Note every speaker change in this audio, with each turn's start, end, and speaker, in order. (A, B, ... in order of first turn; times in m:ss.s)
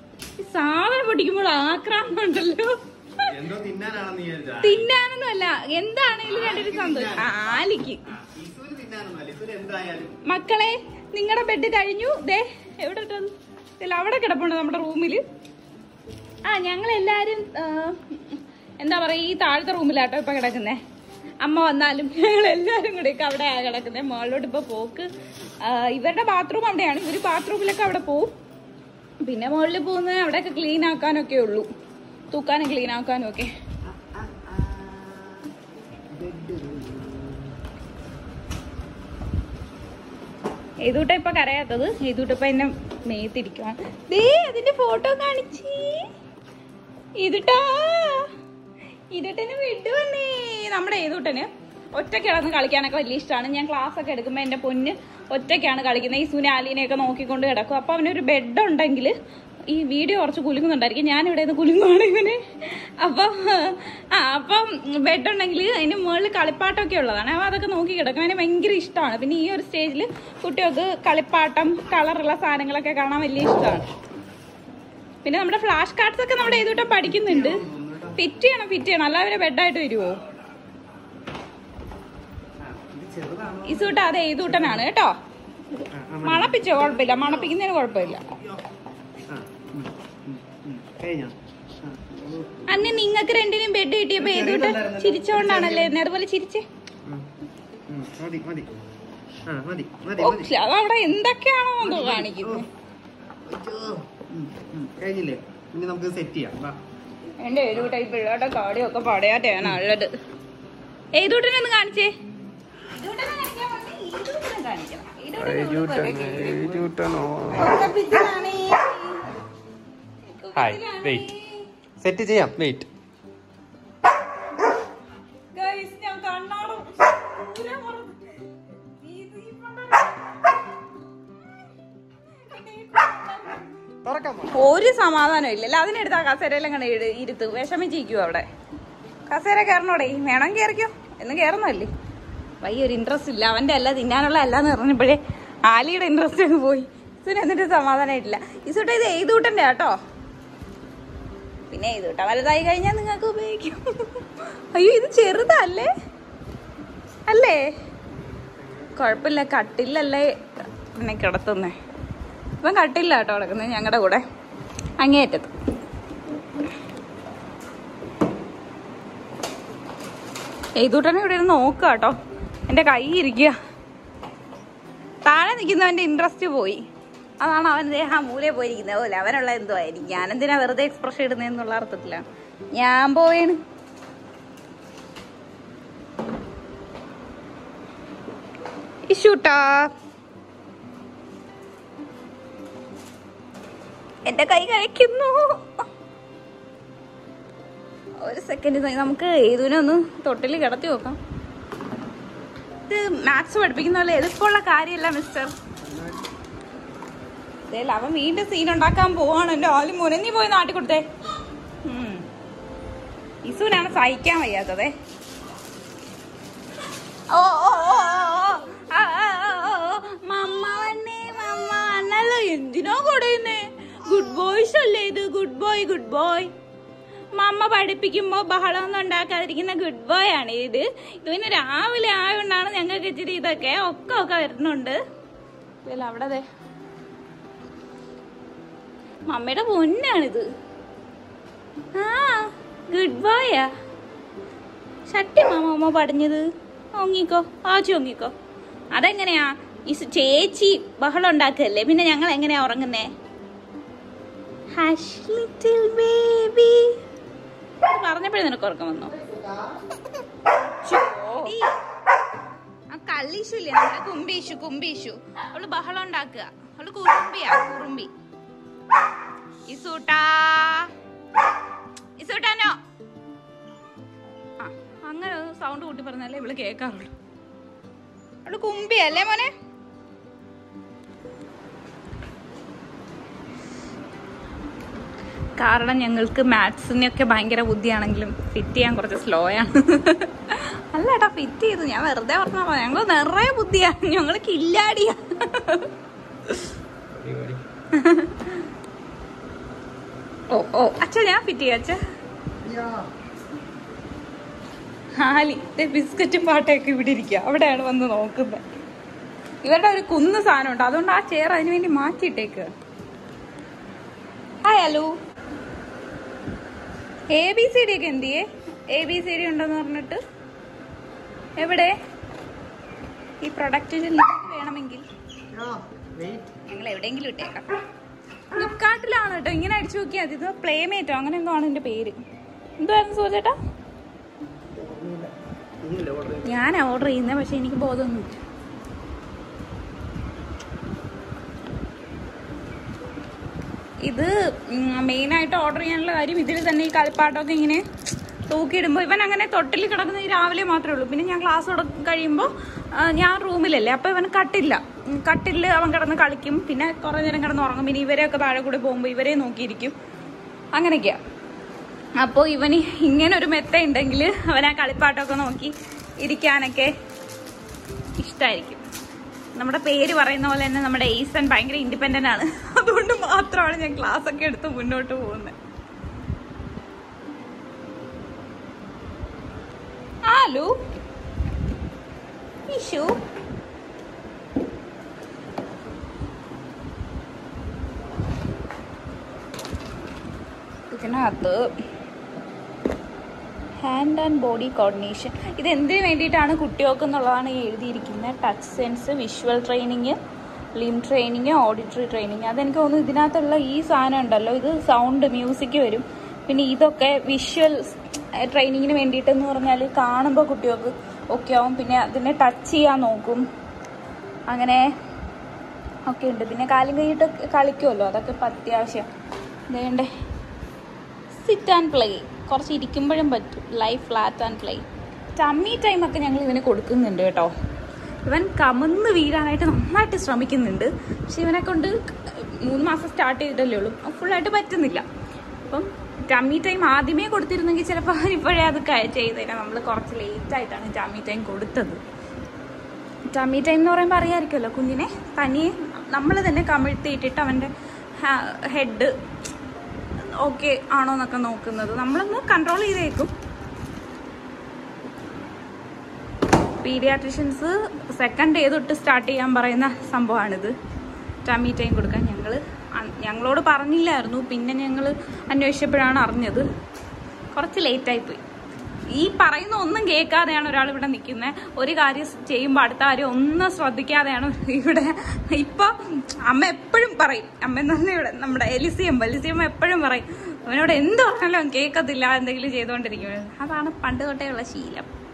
0:00.4-0:03.4 A
0:03.3-0:04.9 B
0:04.6-0:08.0 A
0:06.3-0:10.2 B
0:10.3-0:15.2 A
0:16.5-0:20.8 A
0:21.4-0:25.1 A
0:25.6-0:28.3 A
0:29.2-0:31.7 A
0:32.3-0:33.5 A
0:34.0-0:35.5 B
0:36.1-0:37.5 B
0:40.8-0:46.1 A
0:47.2-0:48.3 A
0:49.1-0:59.1 A
0:59.7-1:13.9 A
1:15.2-1:17.6 A
1:16.8-1:18.2 B
1:18.2-1:20.2 A
1:22.6-1:24.9 B
1:23.6-1:25.2 A
1:25.9-1:27.5 B
1:26.2-1:28.3 A
1:28.2-1:28.6 B
1:29.3-1:32.6 B
1:32.7-1:36.6 A
1:34.2-1:35.9 B
1:37.9-1:38.7 B
1:39.5-1:40.5 B
1:40.2-1:42.7 A
1:41.8-1:42.7 B
1:43.5-1:46.8 B
1:47.4-1:50.1 A
1:51.2-1:52.1 A
1:52.9-1:56.9 A
1:55.4-1:57.8 B
1:57.5-1:59.4 A
2:00.3-2:01.7 A
2:00.6-2:01.3 B
2:02.0-2:02.9 B
2:05.5-2:08.4 A
2:09.0-2:10.5 A
2:12.4-2:13.6 A
2:14.0-2:14.6 B
2:14.5-2:18.5 A
2:19.3-2:21.9 A
2:22.6-2:30.0 A
2:31.7-2:35.9 A
2:37.3-2:37.6 A
2:38.4-2:39.0 B
2:39.0-2:41.8 A
2:42.6-2:44.2 A
2:45.0-2:45.5 A
2:50.8-2:52.2 A
2:52.7-2:53.6 A
2:55.3-2:56.8 A
2:57.4-3:02.2 A
3:02.8-3:03.6 A
3:09.1-3:09.9 A
3:14.3-3:15.6 A
3:18.2-3:21.2 A
3:22.9-3:25.5 A
3:25.8-3:26.2 B
3:27.7-3:31.0 A
3:31.9-3:32.2 A
3:33.4-3:34.9 A
3:37.3-3:46.5 A
3:47.4-3:55.0 A
3:55.8-3:56.4 A
3:59.3-4:00.5 A
4:02.0-4:03.7 A
4:05.1-4:06.4 A
4:07.0-4:08.3 A
4:08.9-4:13.1 A
4:14.8-4:17.0 A
4:17.8-4:19.2 A
4:19.3-4:19.7 B
4:20.8-4:21.7 A
4:22.9-4:28.1 A
4:29.7-4:30.9 A
4:32.2-4:32.8 A
4:34.6-4:37.1 A
4:38.4-4:39.5 A
4:45.6-4:55.9 A
4:57.1-4:57.6 B
4:57.9-4:58.7 A
5:00.5-5:02.0 A
5:02.6-5:03.1 B
5:05.2-5:08.6 A
5:09.6-5:12.7 A
5:14.6-5:15.1 A
5:17.3-5:20.2 A
5:21.6-5:21.9 A
5:23.4-5:25.0 A
5:25.5-5:26.5 B
5:26.7-5:27.7 A
5:28.5-5:32.2 A
5:32.8-5:33.6 A
5:34.7-5:36.6 B
5:36.4-5:38.4 A
5:44.1-5:47.8 A
5:48.5-6:00.0 A
6:00.8-6:01.2 A
6:02.2-6:06.9 A
6:08.2-6:08.8 A
6:09.6-6:15.6 A
6:20.3-6:20.7 A
6:22.7-6:23.2 A
6:30.9-6:31.7 A
6:33.8-6:40.2 A
6:40.8-6:53.4 A
6:54.5-6:54.8 A
6:56.1-6:59.1 A
6:59.7-7:00.1 A
7:01.4-7:04.8 A
7:05.4-7:07.5 A
7:08.3-7:15.0 A
7:15.7-7:22.0 A
7:23.3-7:29.1 A
7:30.2-7:33.3 A
7:36.8-7:40.7 A
7:41.4-7:46.6 A
7:47.5-7:48.4 A
7:49.1-8:05.1 A